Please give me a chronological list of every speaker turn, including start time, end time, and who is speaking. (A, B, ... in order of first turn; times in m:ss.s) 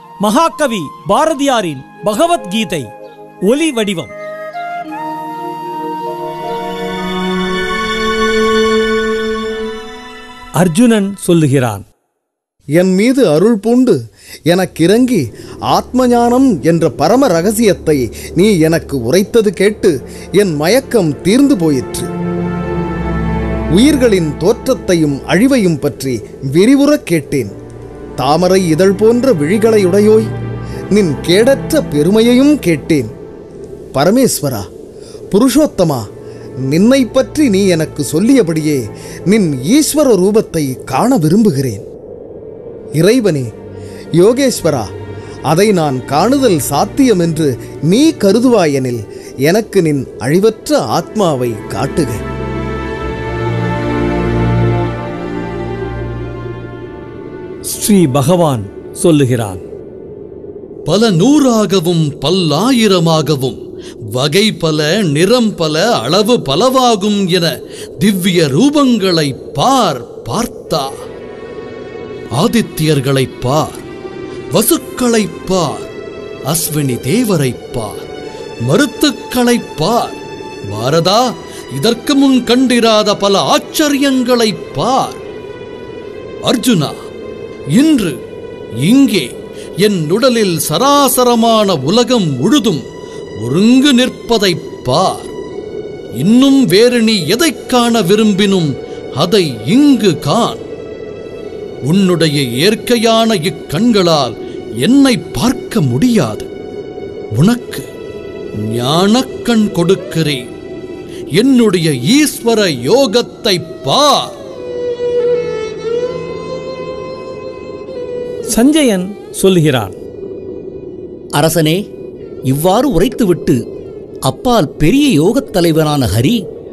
0:00.2-0:02.9 A
0:03.5-0:04.1 A
0:10.6-0:11.9 A
0:12.8-0:14.0 B
0:14.5-0:22.1 B
0:23.8-0:27.5 B
0:28.2-0:30.3 B
0:30.9-0:33.1 B
0:34.0-0:34.6 B
0:35.3-0:36.0 B
0:36.7-0:41.8 B
0:43.0-0:43.5 B
0:44.2-0:44.9 B
0:45.5-0:52.2 B
0:57.7-0:59.6 A
1:00.9-1:03.6 C
1:04.1-1:07.5 C
1:08.0-1:10.9 C
1:12.4-1:13.9 C
1:14.5-1:15.9 C
1:16.5-1:18.1 C
1:18.7-1:20.2 C
1:20.7-1:25.2 C
1:26.5-1:27.0 C
1:27.8-1:28.2 C
1:28.8-1:29.3 C
1:29.8-1:32.8 C
1:33.4-1:35.3 C
1:36.2-1:40.6 C
1:41.9-1:46.5 C
1:47.4-1:47.9 C
1:48.7-1:50.4 C
1:51.4-1:54.3 C
1:58.5-1:59.9 A
2:01.3-2:01.9 D
2:02.5-2:03.6 D
2:04.2-2:06.4 D